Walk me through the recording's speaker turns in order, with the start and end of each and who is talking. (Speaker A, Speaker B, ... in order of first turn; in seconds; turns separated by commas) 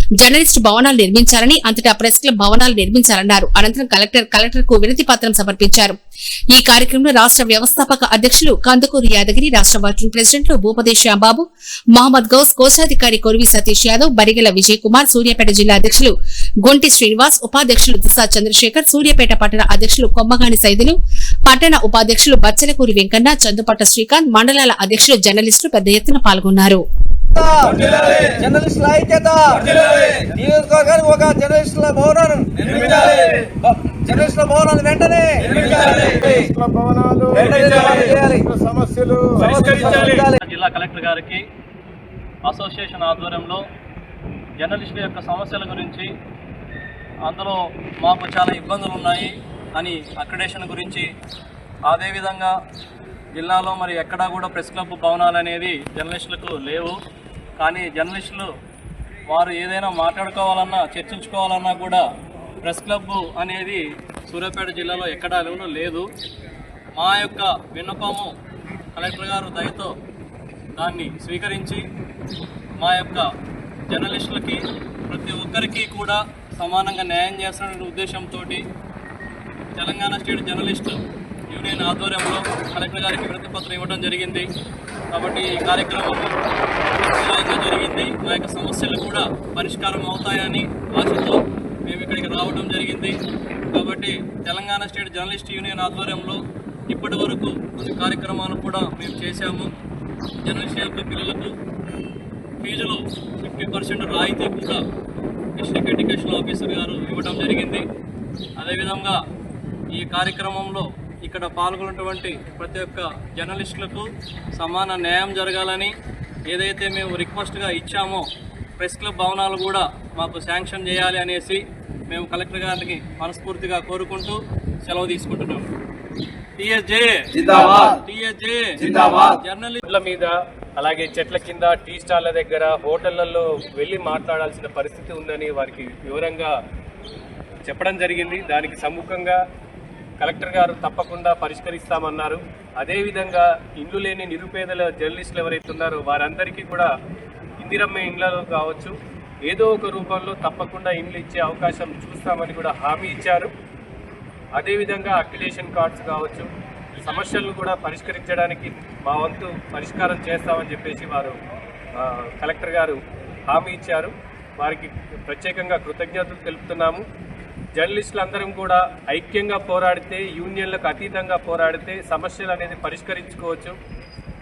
Speaker A: 0.2-6.0, Speaker A: 6.5-16.1, Speaker A: 16.6-26.8, Speaker B: 27.3-36.5, Speaker C: 36.3-37.8, Speaker B: 37.2-38.6, Speaker C: 38.4-39.5, Speaker B: 39.4-40.4, Speaker D: 39.4-40.2, Speaker E: 40.4-41.5, Speaker E: 42.5-43.6, Speaker E: 44.6-46.1, Speaker E: 47.2-51.1, Speaker E: 51.9-52.5, Speaker E: 53.4-57.0, Speaker E: 57.6-58.5, Speaker E: 59.3-62.1, Speaker E: 62.6-66.1, Speaker E: 67.0-68.3, Speaker E: 69.0-70.0, Speaker E: 70.8-71.8, Speaker E: 72.8-73.3, Speaker E: 73.9-78.6, Speaker E: 79.8-84.5, Speaker E: 85.1-86.4, Speaker E: 87.0-93.2, Speaker E: 93.7-99.7, Speaker E: 100.4-101.5, Speaker E: 102.6-104.8, Speaker E: 105.6-107.9, Speaker E: 108.6-109.2, Speaker E: 109.9-115.9, Speaker E: 116.5-125.7, Speaker E: 126.6-129.8, Speaker D: 129.8-136.6, Speaker D: 137.7-139.4, Speaker D: 140.2-146.9, Speaker D: 147.6-153.5, Speaker D: 154.6-156.5, Speaker D: 157.0-161.4, Speaker D: 162.0-167.1, Speaker D: 167.8-173.8